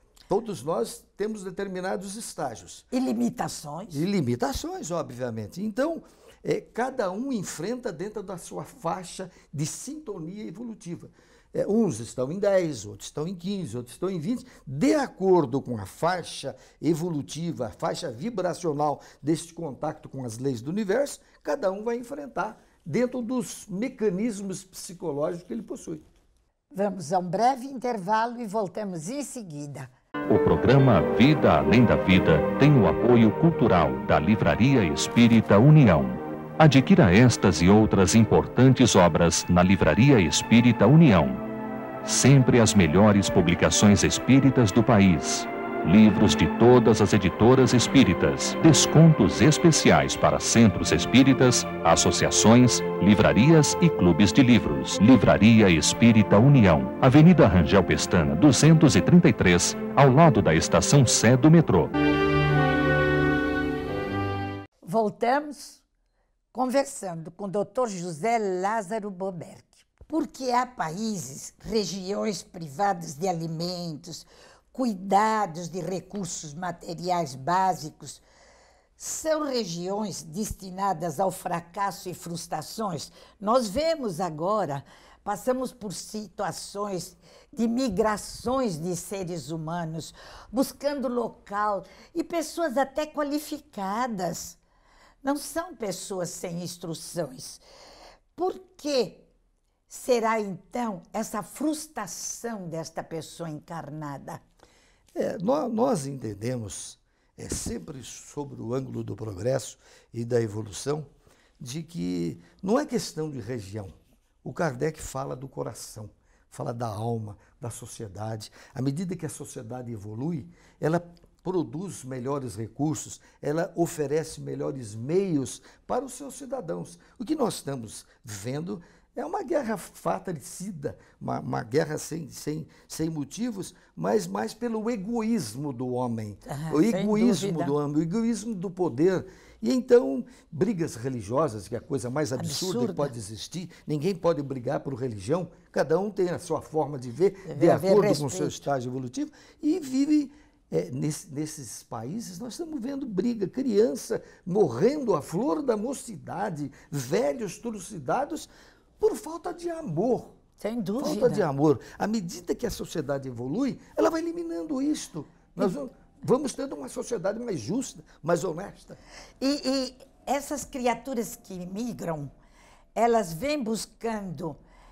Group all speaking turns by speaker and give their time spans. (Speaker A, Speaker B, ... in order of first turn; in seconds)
Speaker A: 0.3-2.9, 3.9-26.1, 105.2-111.1, 111.6-160.3, 161.0-169.0
Speaker B: 2.9-4.0, 26.7-29.9, 64.8-65.8, 66.5-78.2, 79.0-94.6, 95.2-97.6, 98.4-99.3, 99.9-104.4, 136.5-137.7, 142.4-143.1, 147.5-148.7, 160.6-161.4, 169.4-172.3, 172.9-174.6
Speaker C: 30.3-41.5, 42.0-61.9